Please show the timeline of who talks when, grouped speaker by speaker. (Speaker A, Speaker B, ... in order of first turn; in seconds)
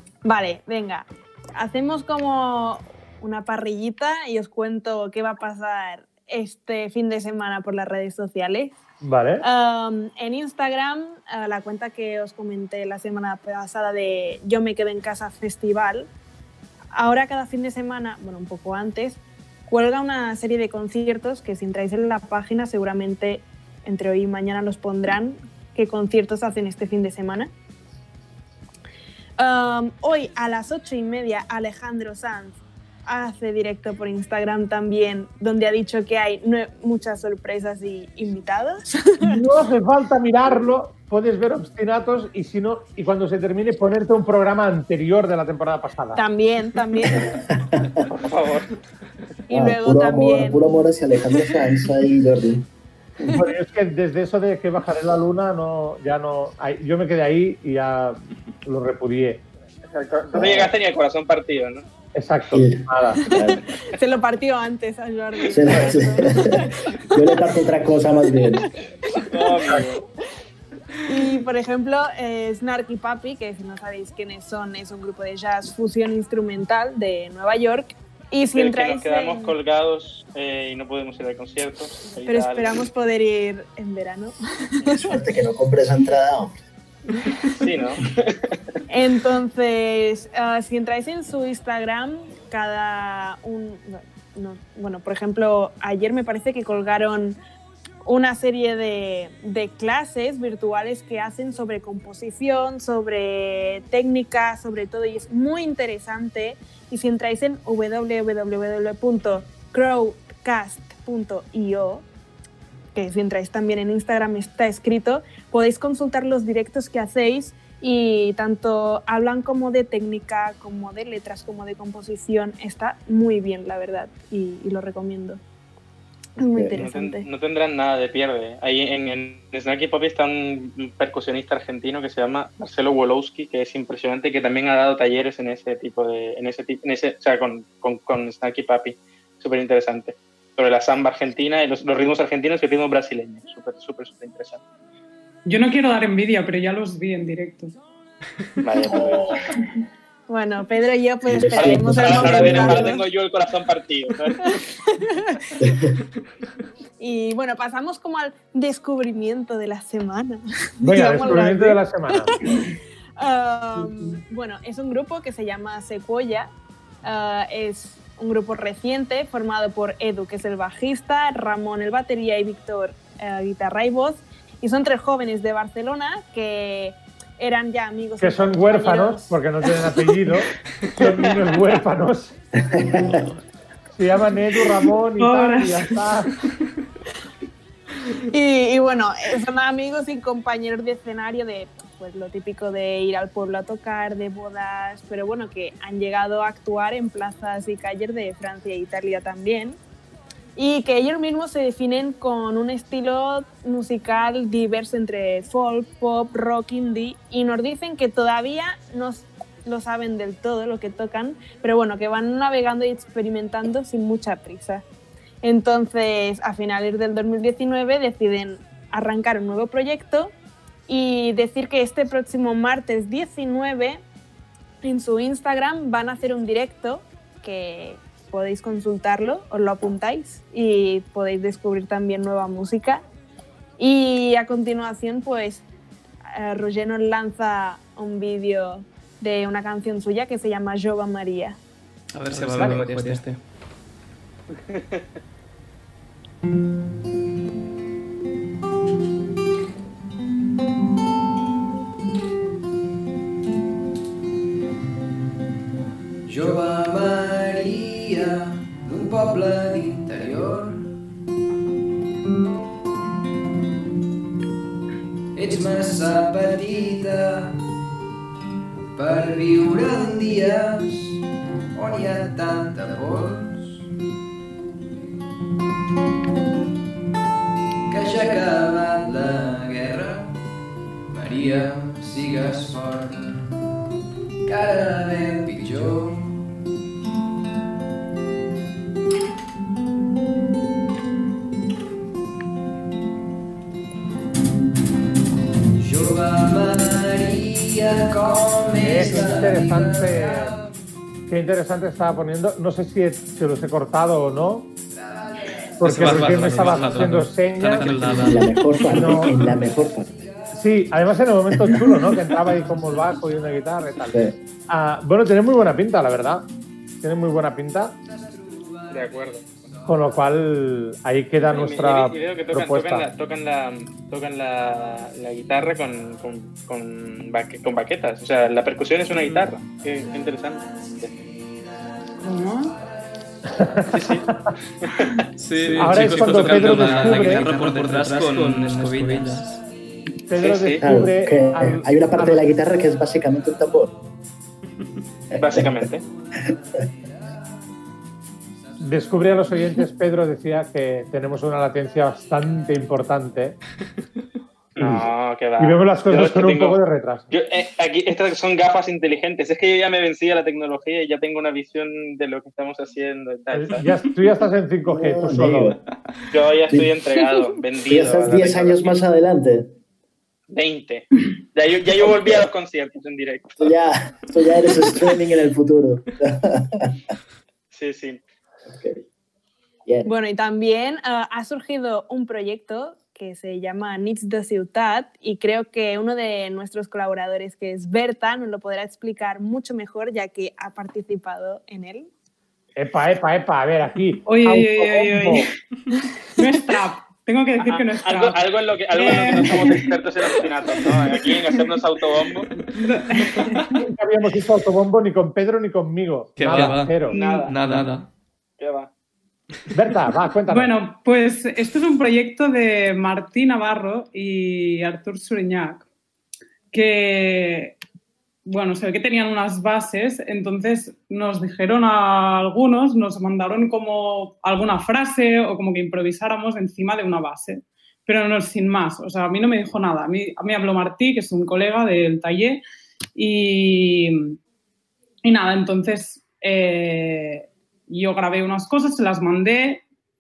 Speaker A: 0.2-8.7, 9.4-16.1, 16.9-27.5, 29.4-39.4, 46.1-47.4, 49.5-50.6, 63.3-67.3, 68.6-69.3, 71.0-79.5, 82.3-85.2, 88.9-97.4, 98.0-112.1, 113.0-125.4, 126.4-127.3, 150.3-153.0, 154.4-155.6, 157.0-166.5, 167.0-179.4, 188.3-199.8, 200.6-214.8, 215.4-220.3, 220.9-224.0, 224.8-233.0, 233.8-235.7, 236.3-241.6, 380.1-392.1
Speaker B: 9.0-9.4, 39.2-46.2, 53.3-59.4, 62.1-63.2, 160.8-162.3, 178.2-182.3, 183.9-186.3, 242.3-243.2, 298.8-300.5, 301.3-304.7, 305.8-308.3, 308.9-309.5, 310.5-316.5, 317.0-317.9, 319.9-323.1, 333.5-334.5, 335.8-338.5, 340.2-342.4, 348.8-353.6, 354.8-357.3, 363.5-365.8, 392.8-395.5, 403.8-407.1, 409.7-410.7
Speaker C: 47.1-48.0, 49.5-52.7, 60.3-60.7, 62.5-63.6, 65.5-68.7, 85.0-86.6, 126.4-126.8, 151.3-153.0, 155.6-155.9, 182.7-183.2, 308.1-310.1, 311.6-311.9, 340.8-344.0, 345.3-345.8, 364.9-365.8, 367.9-369.8, 372.0-372.4, 373.6-377.0, 378.7-379.1, 379.9-380.1
Speaker D: 48.1-48.7, 59.9-61.8, 69.3-70.0, 78.5-82.8, 87.5-88.6, 126.8-144.6, 148.6-149.5, 151.5-154.5, 244.6-245.0, 318.9-319.4, 321.4-331.1, 333.9-334.3, 334.8-335.2, 340.4-340.9, 345.4-346.0, 354.8-356.8, 357.3-363.9, 366.3-369.0, 370.5-373.7, 377.7-378.2, 397.6-402.5, 407.1-407.6, 408.6-408.9
Speaker E: 145.5-147.8, 185.2-185.9, 332.2-332.7, 394.2-395.5, 396.4-401.6, 402.7-403.9, 407.1-407.4, 410.5-415.9, 416.7-417.8, 418.5-432.6, 433.2-434.4, 435.2-439.8
Speaker F: 182.9-183.4, 242.1-243.4, 305.8-308.6, 335.4-339.6, 406.4-408.1
Speaker G: 256.3-260.9, 265.4-267.6, 268.9-271.2, 271.7-273.9, 277.9-280.4, 281.1-283.5, 284.4-286.4, 295.8-300.7, 304.9-306.7, 309.4-310.6, 312.5-314.1, 318.0-320.3, 330.7-331.3, 339.0-339.6